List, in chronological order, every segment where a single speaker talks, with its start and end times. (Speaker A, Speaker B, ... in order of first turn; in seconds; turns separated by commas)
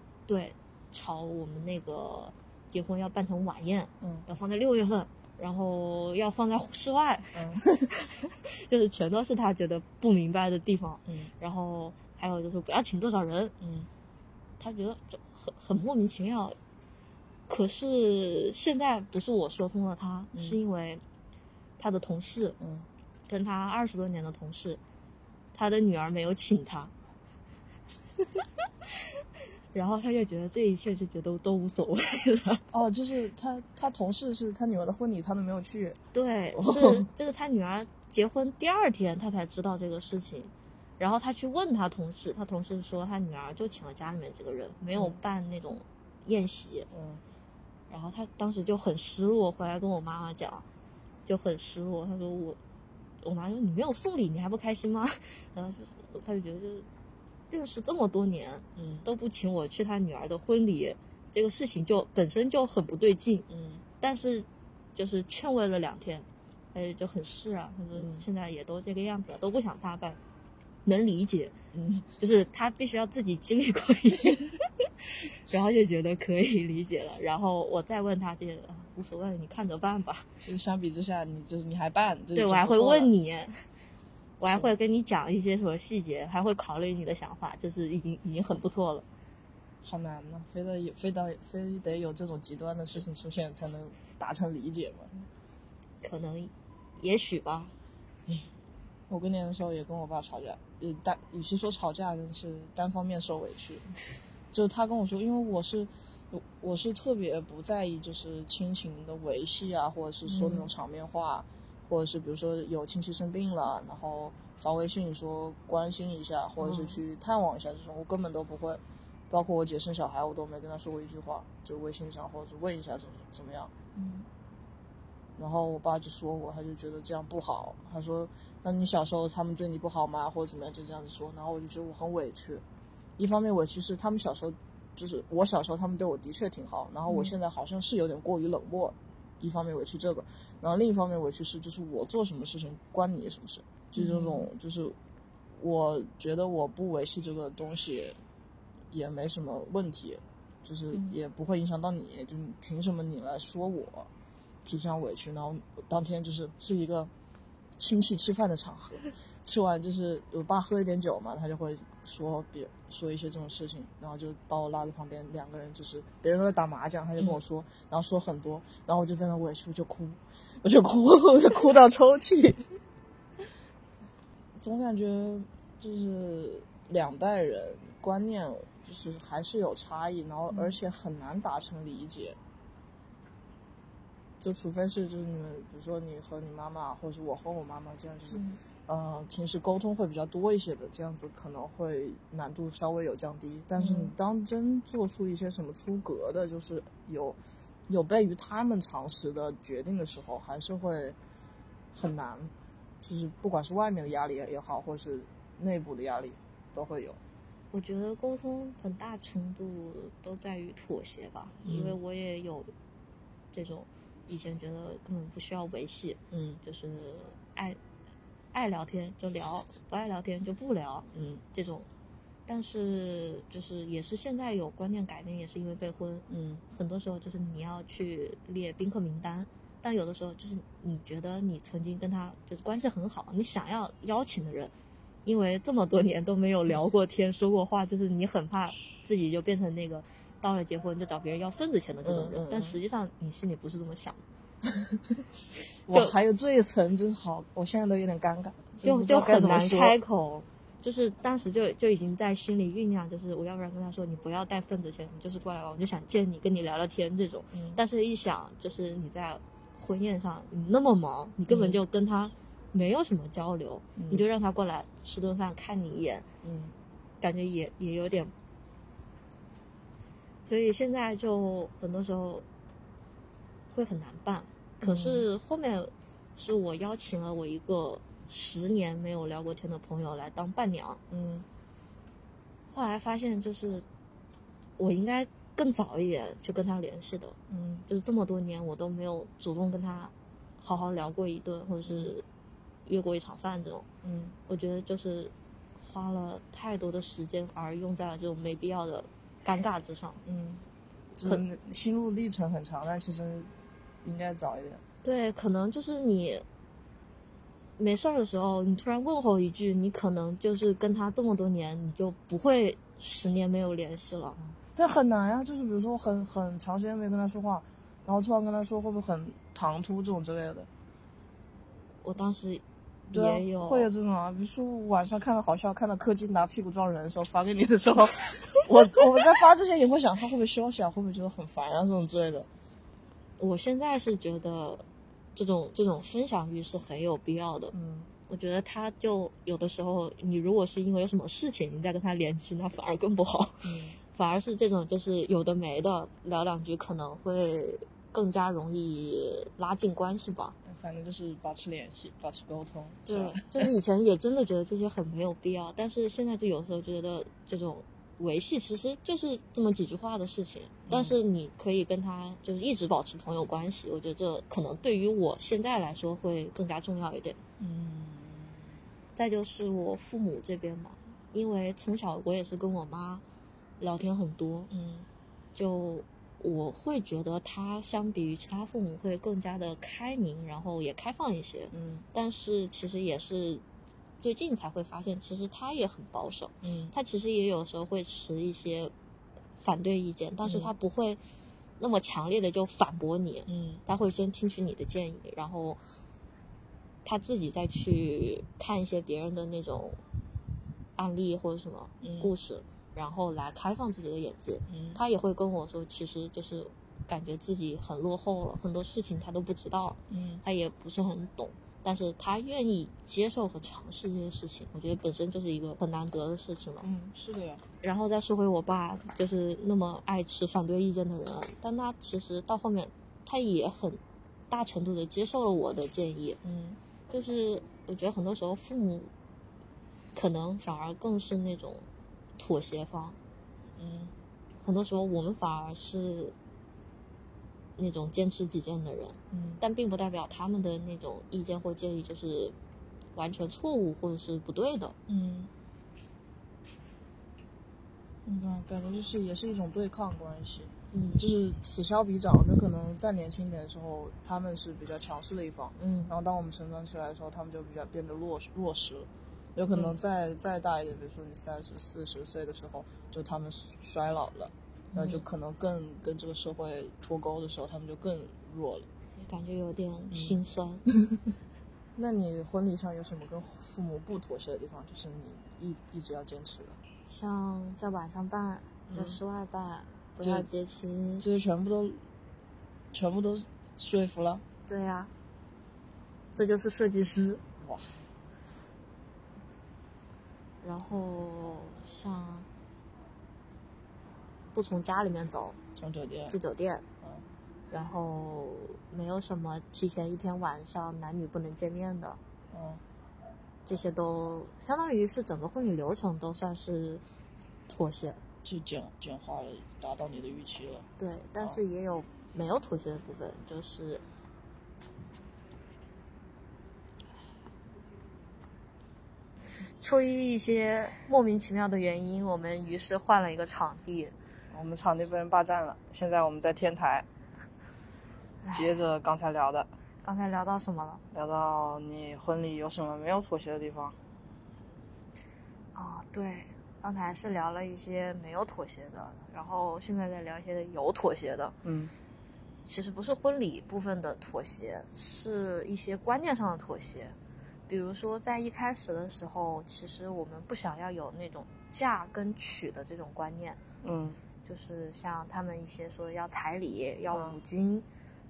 Speaker A: 0.3-13.6, Speaker B: 4.0-4.3, Speaker B: 7.3-8.0, Speaker B: 11.1-11.3, Speaker B: 13.6-13.9, Speaker A: 14.6-16.6, Speaker A: 17.5-21.0, Speaker B: 20.3-20.6, Speaker A: 21.8-22.6, Speaker B: 22.6-22.9, Speaker A: 23.3-24.8, Speaker A: 25.5-26.9, Speaker A: 29.7-32.6, Speaker B: 32.7-36.0, Speaker A: 36.1-46.9, Speaker B: 36.5-37.1, Speaker B: 46.9-47.2, Speaker A: 47.9-50.6, Speaker A: 51.3-52.6, Speaker A: 53.2-56.9, Speaker A: 57.5-63.5, Speaker B: 58.8-59.1, Speaker B: 63.5-63.8, Speaker A: 64.0-70.2, Speaker B: 68.0-68.2, Speaker A: 70.8-71.5, Speaker B: 71.7-72.1, Speaker A: 72.2-80.3, Speaker B: 80.4-83.1, Speaker A: 82.3-83.6, Speaker A: 84.4-89.0, Speaker B: 84.5-84.7, Speaker B: 89.8-95.1, Speaker A: 96.0-97.7, Speaker B: 99.1-103.8, Speaker B: 104.5-123.7, Speaker A: 110.3-110.7, Speaker A: 116.6-117.0, Speaker A: 124.0-124.3, Speaker B: 125.4-132.6, Speaker B: 133.2-145.0, Speaker A: 137.1-137.3, Speaker A: 144.0-144.5, Speaker B: 145.6-148.2, Speaker B: 148.9-154.1, Speaker B: 154.7-157.1, Speaker B: 157.8-172.6, Speaker B: 174.6-182.4, Speaker B: 184.4-197.4, Speaker A: 188.3-188.6, Speaker A: 193.8-194.1, Speaker B: 197.9-201.2, Speaker B: 201.9-207.2, Speaker A: 207.7-212.7, Speaker B: 211.6-212.0, Speaker A: 213.5-217.8, Speaker B: 216.3-216.6, Speaker A: 218.5-221.9, Speaker B: 221.1-221.4, Speaker A: 222.5-234.7, Speaker B: 226.3-226.6, Speaker A: 235.2-244.2, Speaker B: 242.0-242.8, Speaker B: 245.9-250.0, Speaker A: 248.8-266.3, Speaker B: 257.5-257.8, Speaker B: 261.5-261.8, Speaker B: 264.0-264.3, Speaker B: 266.4-266.7, Speaker A: 267.2-268.3, Speaker A: 270.4-272.4, Speaker A: 273.7-281.0, Speaker B: 274.8-275.3, Speaker B: 281.1-281.5, Speaker A: 282.7-283.9, Speaker A: 284.8-287.4, Speaker B: 287.5-287.9, Speaker A: 287.9-292.2, Speaker B: 291.9-292.1, Speaker A: 292.9-293.9, Speaker B: 294.0-294.4, Speaker A: 294.5-300.2, Speaker B: 300.2-300.6, Speaker B: 301.2-303.5, Speaker B: 304.0-304.8, Speaker A: 305.0-306.4, Speaker A: 307.8-314.4, Speaker B: 314.6-320.7, Speaker A: 322.0-323.9, Speaker B: 323.1-332.5, Speaker A: 333.4-334.9, Speaker A: 335.4-337.7, Speaker B: 337.7-338.1, Speaker A: 338.3-350.6, Speaker B: 343.6-344.0, Speaker B: 350.6-353.7, Speaker A: 353.1-367.4, Speaker B: 360.9-361.2, Speaker B: 367.6-368.6, Speaker A: 369.2-373.2, Speaker A: 373.8-374.7, Speaker B: 374.7-375.1, Speaker A: 375.6-383.6, Speaker B: 381.7-382.1, Speaker A: 384.2-388.9, Speaker B: 386.6-386.9, Speaker A: 389.6-391.2, Speaker B: 390.4-390.7, Speaker A: 391.8-395.8, Speaker B: 393.5-393.8, Speaker A: 397.1-400.0, Speaker A: 401.0-416.9, Speaker B: 402.0-402.3, Speaker B: 404.7-405.0, Speaker B: 410.1-410.4, Speaker B: 416.8-417.6, Speaker A: 417.8-426.4, Speaker B: 426.4-426.8, Speaker A: 427.1-429.1, Speaker A: 430.1-431.9, Speaker A: 432.4-433.2, Speaker B: 433.8-434.1, Speaker A: 434.6-436.4, Speaker A: 437.8-442.6, Speaker B: 439.3-439.6, Speaker A: 443.1-445.0, Speaker B: 445.1-445.5, Speaker B: 448.2-468.9, Speaker A: 450.9-451.2, Speaker A: 455.8-456.1, Speaker A: 464.9-465.2, Speaker A: 469.2-470.8, Speaker B: 470.1-470.4, Speaker B: 472.0-476.8, Speaker A: 477.1-481.3, Speaker B: 478.9-479.2, Speaker B: 480.2-480.5, Speaker B: 481.2-482.0, Speaker B: 482.9-484.4, Speaker A: 484.7-485.1, Speaker A: 486.4-487.4, Speaker B: 487.6-487.9, Speaker A: 490.6-492.5, Speaker A: 494.5-495.6, Speaker B: 495.8-496.4, Speaker A: 496.3-496.9, Speaker A: 497.7-502.2, Speaker B: 502.5-502.8, Speaker A: 503.7-507.0, Speaker A: 507.7-508.2, Speaker B: 508.4-510.9, Speaker A: 511.0-514.0, Speaker A: 519.8-524.1, Speaker B: 524.5-527.1, Speaker A: 528.4-528.8, Speaker B: 528.5-529.7, Speaker A: 530.0-531.0, Speaker B: 531.1-534.0, Speaker A: 535.8-541.5, Speaker B: 541.6-541.9, Speaker A: 542.6-547.1, Speaker A: 547.7-553.6, Speaker B: 553.8-554.2, Speaker A: 554.5-557.9, Speaker B: 557.1-557.4